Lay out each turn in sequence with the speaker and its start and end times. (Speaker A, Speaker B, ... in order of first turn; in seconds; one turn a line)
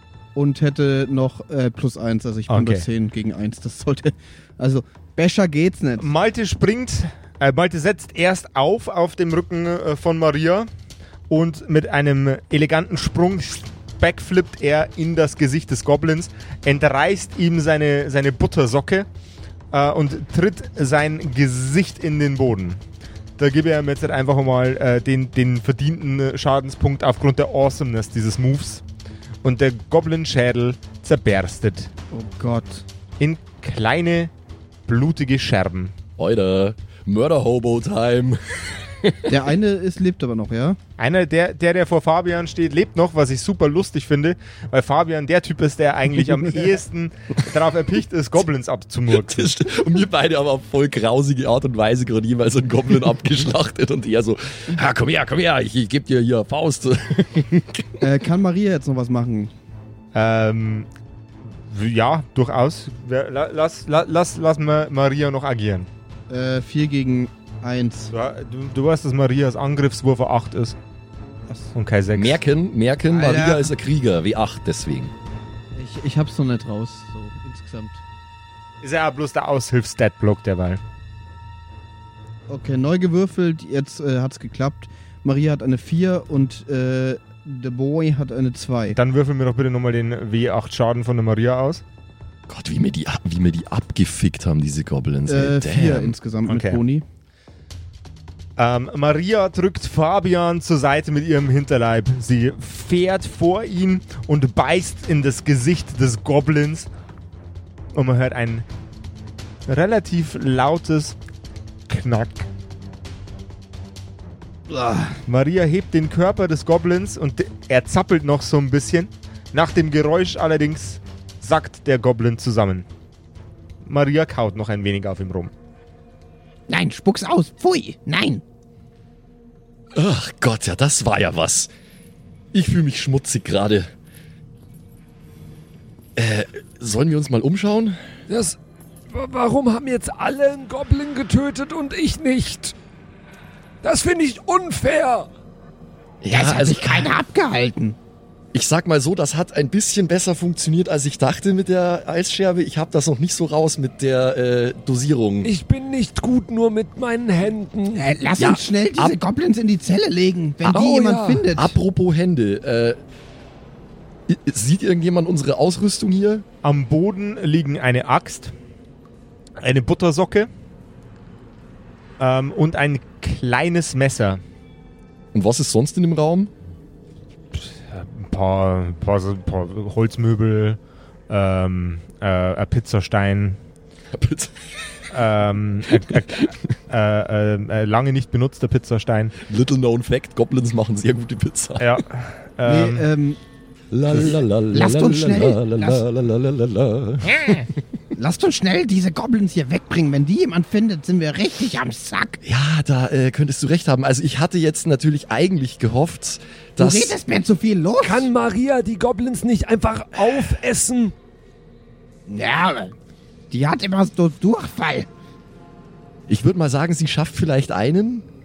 Speaker A: 0.3-6.1
Speaker B: 2.5-2.9
Speaker B: 6.0-10.7
Speaker B: 11.3-19.1
Speaker B: 19.7-22.8
Speaker B: 23.4-28.8
Speaker B: 29.4-31.9
Speaker A: 32.1-32.8
Speaker B: 33.2-34.3
Speaker B: 34.9-35.9
Speaker C: 36.2-39.4
Speaker A: 39.3-40.8
Speaker B: 41.0-49.5
Speaker C: 49.1-58.1
Speaker A: 58.0-59.5
Speaker B: 60.1-60.9
Speaker B: 61.5-65.9
Speaker A: 66.3-68.1
Speaker B: 68.1-70.8
Speaker B: 71.7-72.4
Speaker C: 72.1-75.1
Speaker A: 73.1-73.7
Speaker A: 75.7-78.0
Speaker B: 78.8-80.8
Speaker A: 82.5-89.0
Speaker B: 88.9-91.8
Speaker C: 92.5-96.2
Speaker A: 95.3-97.0
Speaker B: 96.5-96.8
Speaker B: 98.6-106.9
Speaker B: 107.9-108.7
Speaker B: 109.7-111.2
Speaker B: 111.9-112.5
Speaker D: 114.7-115.1
Speaker B: 115.3-122.9
Speaker B: 123.8-125.5
Speaker D: 126.7-128.4
Speaker C: 129.9-131.7
Speaker C: 132.5-133.9
Speaker C: 136.2-138.1
Speaker E: 138.3-138.6
Speaker E: 139.1-142.7
Speaker E: 143.8-145.3
Speaker C: 146.2-147.2
Speaker D: 146.3-147.9
Speaker C: 148.5-155.5
Speaker E: 155.4-158.1
Speaker D: 157.9-161.7
Speaker C: 158.4-159.2
Speaker C: 160.6-163.0
Speaker E: 160.8-161.4
Speaker C: 164.3-166.4
Speaker B: 166.6-168.5
Speaker B: 169.6-170.5
Speaker B: 172.2-174.4
Speaker C: 175.3-176.5
Speaker B: 177.5-183.6
Speaker C: 184.1-184.6
Speaker B: 185.1-189.3
Speaker C: 189.4-192.0
Speaker B: 191.8-193.0
Speaker A: 192.6-193.4
Speaker C: 193.9-197.7
Speaker D: 194.1-196.0
Speaker D: 197.3-202.4
Speaker C: 202.4-207.2
Speaker D: 206.8-208.3
Speaker E: 208.0-211.1
Speaker D: 212.3-212.9
Speaker D: 213.5-215.1
Speaker C: 216.3-218.2